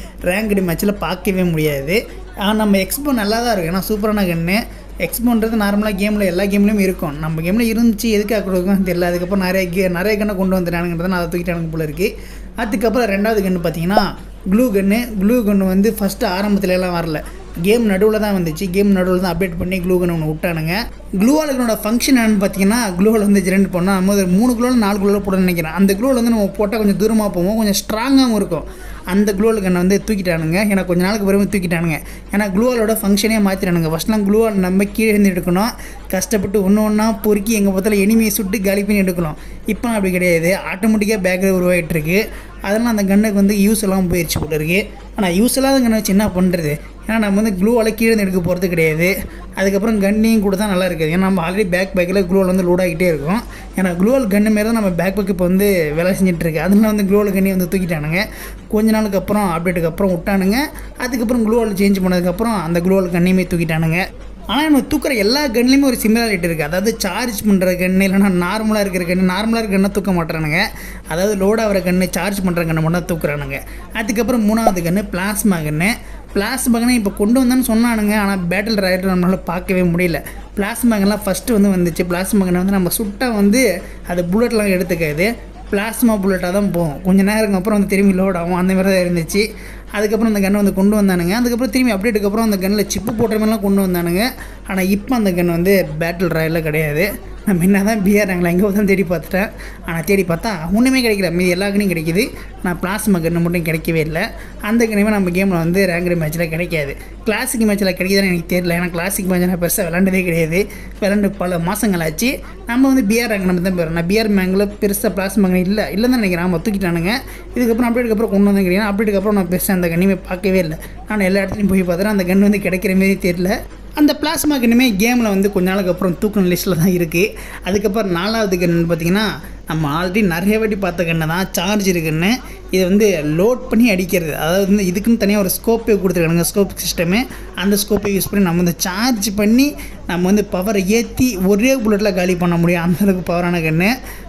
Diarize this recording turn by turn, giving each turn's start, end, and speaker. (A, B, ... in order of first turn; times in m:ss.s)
0:00.3-1:04.0 A
1:04.5-2:23.9 A